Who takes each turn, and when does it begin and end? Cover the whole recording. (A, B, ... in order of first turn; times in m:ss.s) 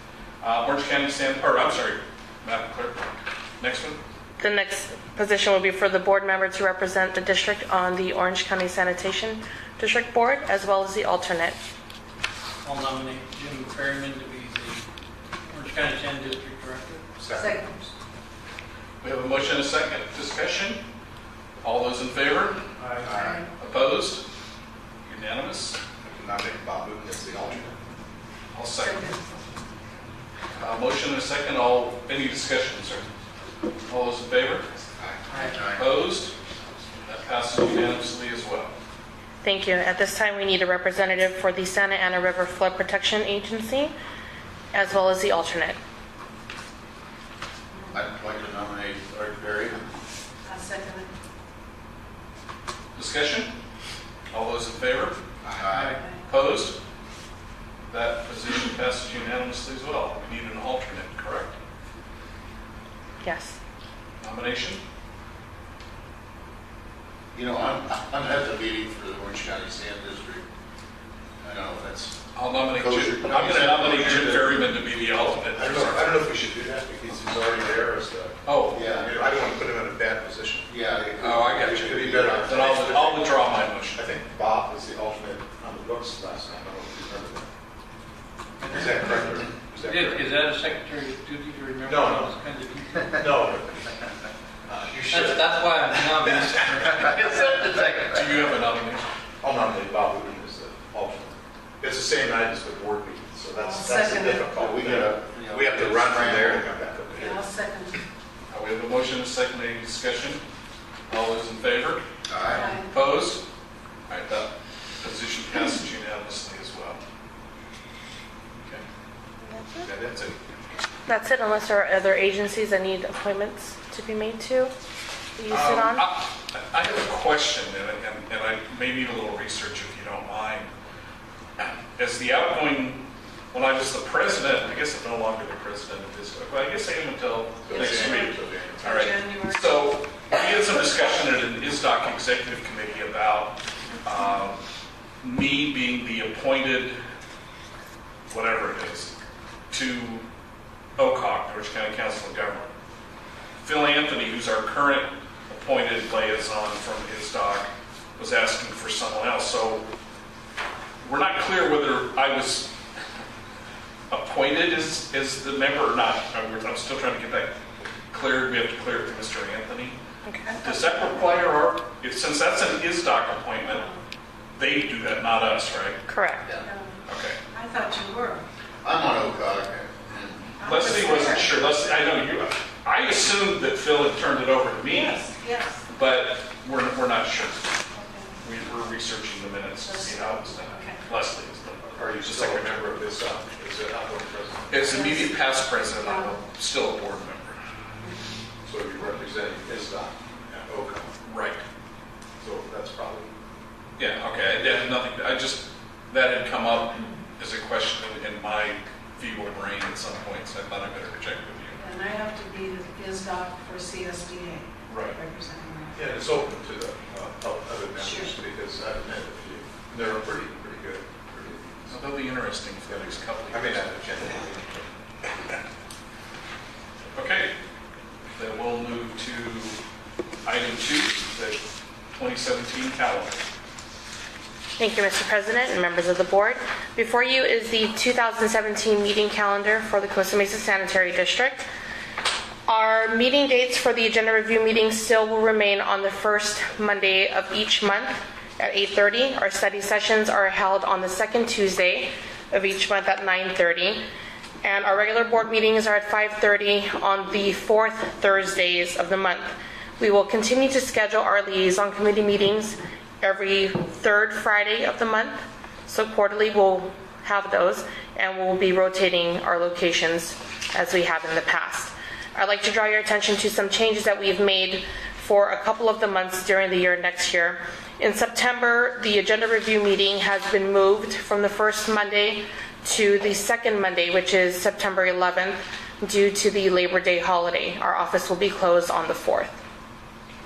0:00.4-0:03.0 A
0:03.6-0:04.0 A
0:04.4-0:11.6 B
0:12.6-0:14.8 C
0:15.4-0:17.1 C
0:17.2-0:17.6 D
0:17.3-0:17.9 E
0:19.0-0:20.8 A
0:21.6-0:22.6 A
0:22.8-0:23.1 C
0:23.0-0:23.4 D
0:23.1-0:23.4 E
0:23.6-0:24.2 A
0:25.0-0:25.8 A
0:26.0-0:27.7 D
0:28.5-0:29.1 A
0:28.8-0:29.2 E
0:30.6-0:33.1 A
0:33.9-0:34.7 A
0:35.0-0:36.0 F
0:35.3-0:35.6 C
0:35.7-0:36.3 A
0:36.9-0:38.7 A
0:39.4-0:43.9 B
0:44.7-0:45.8 B
0:47.7-0:48.0 E
0:47.9-0:49.9 F
0:50.4-0:51.1 E
0:52.9-0:53.5 A
0:54.3-0:55.2 A
0:55.4-0:56.0 F
0:55.7-0:56.0 C
0:56.3-0:56.8 A
0:57.9-1:01.5 A
1:03.2-1:03.6 B
1:04.2-1:04.8 A
1:07.3-1:10.5 F
1:11.4-1:14.0 F
1:12.3-1:16.1 A
1:13.5-1:14.6 D
1:15.5-1:20.9 D
1:18.4-1:19.0 A
1:18.7-1:19.3 F
1:20.7-1:22.8 F
1:21.2-1:21.9 A
1:21.6-1:27.5 D
1:22.4-1:24.0 A
1:28.6-1:29.2 C
1:28.7-1:30.3 D
1:29.8-1:33.3 C
1:31.8-1:32.3 D
1:33.1-1:34.0 D
1:34.7-1:36.7 D
1:35.0-1:37.6 C
1:36.9-1:38.5 F
1:38.1-1:39.1 A
1:39.4-1:47.4 D
1:43.5-1:44.5 E
1:44.5-1:46.7 F
1:47.2-1:48.0 E
1:48.5-1:50.4 A
1:51.1-1:52.0 A
1:52.3-1:52.8 F
1:52.5-1:52.9 E
1:52.7-1:53.4 A
1:54.1-1:57.0 A
1:59.4-1:59.9 B
1:59.8-2:00.4 D
2:01.1-2:04.7 B
2:05.4-2:06.0 B
2:05.5-2:10.7 A
2:11.6-2:24.6 A
2:17.6-2:18.9 D
2:17.9-2:18.2 E
2:18.8-2:19.7 E
2:25.2-2:27.0 A
2:28.3-2:29.1 A
2:29.7-2:30.2 A
2:31.0-2:32.7 A
2:33.6-2:39.9 A
2:41.0-2:42.7 A
2:44.1-2:47.6 A
2:48.1-2:50.0 A
2:50.2-2:50.6 B
2:50.6-2:53.8 A
2:54.6-2:56.0 A
2:56.1-2:56.5 B
2:56.6-2:56.9 E
2:57.1-2:57.4 A
2:57.5-2:58.4 E
2:58.8-3:00.4 F
3:00.6-3:01.6 E
3:00.6-3:05.3 A
3:04.9-3:05.8 E
3:05.9-3:07.7 A
3:07.9-3:08.3 E
3:08.4-3:12.9 A
3:09.8-3:11.0 E
3:12.0-3:15.0 D
3:14.7-3:17.6 A
3:14.9-3:15.3 E
3:15.9-3:16.4 E
3:18.6-3:21.1 D
3:21.2-3:21.6 A
3:22.4-3:23.3 D
3:24.0-3:31.8 A
3:31.8-3:36.0 E
3:34.9-3:35.2 A
3:35.9-3:42.0 D
3:38.0-3:38.3 E
3:41.9-3:43.8 A
3:42.9-3:44.9 D
3:47.1-3:47.5 A
3:48.4-3:49.8 A
3:50.4-3:51.6 A
3:52.1-3:53.4 A
3:54.8-4:01.6 B
4:02.7-4:14.0 B
4:14.6-4:49.6 B